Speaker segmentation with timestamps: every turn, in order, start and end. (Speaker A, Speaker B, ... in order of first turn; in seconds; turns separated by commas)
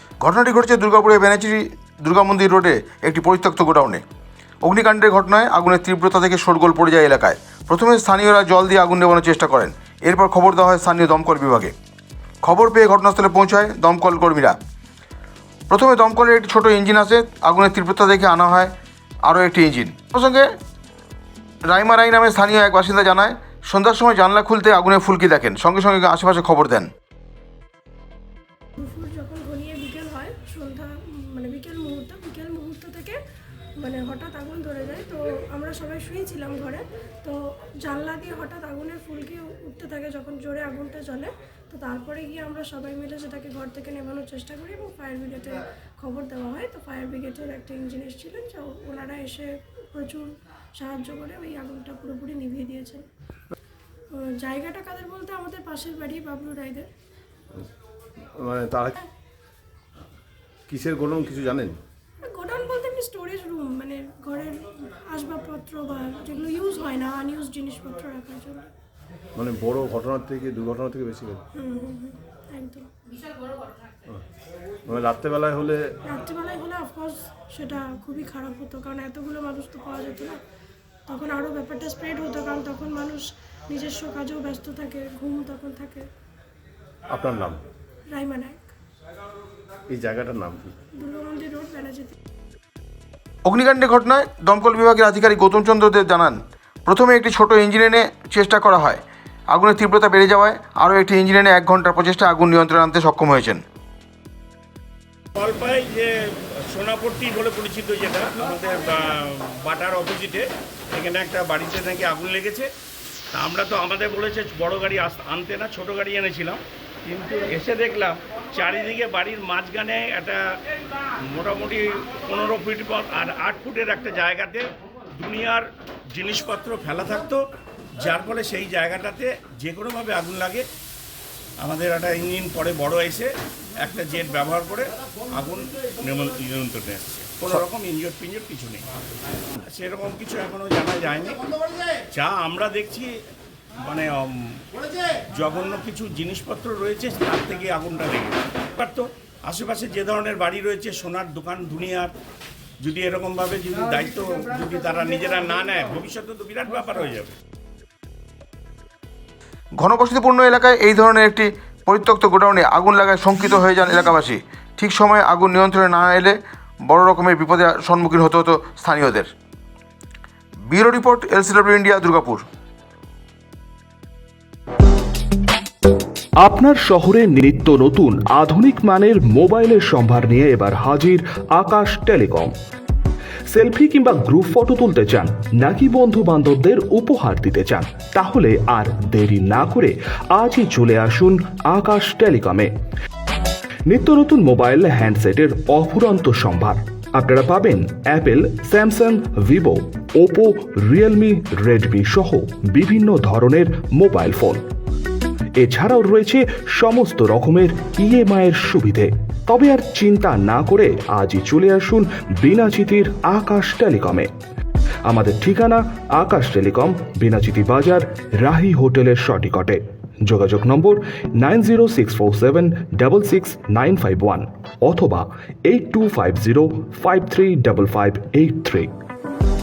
Speaker A: 0.2-4.0, Speaker A: 4.6-11.7, Speaker A: 12.4-14.6, Speaker A: 15.7-18.7, Speaker A: 19.2-20.5, Speaker A: 21.7-26.9, Speaker B: 28.8-33.2, Speaker B: 33.8-53.0, Speaker B: 54.1-56.9, Speaker C: 58.3-59.0, Speaker C: 60.7-61.8, Speaker B: 62.2-68.6, Speaker C: 69.3-71.4, Speaker B: 71.5-72.9, Speaker C: 74.8-75.8, Speaker B: 76.1-80.4, Speaker B: 81.1-86.1, Speaker C: 87.1-87.6, Speaker B: 88.1-88.7, Speaker C: 89.9-90.7, Speaker B: 90.9-92.1, Speaker A: 93.5-103.6, Speaker D: 105.3-112.7, Speaker D: 113.3-120.4, Speaker D: 121.2-127.4, Speaker D: 128.0-130.7, Speaker D: 131.6-138.8, Speaker D: 139.6-141.4, Speaker D: 142.1-143.1, Speaker D: 143.8-144.7, Speaker D: 145.3-152.1, Speaker D: 152.8-157.3, Speaker A: 159.8-166.3, Speaker A: 166.8-169.3, Speaker A: 170.7-172.4, Speaker E: 176.4-182.5, Speaker E: 183.5-192.7, Speaker E: 193.9-204.6, Speaker E: 205.6-214.3, Speaker E: 215.0-228.9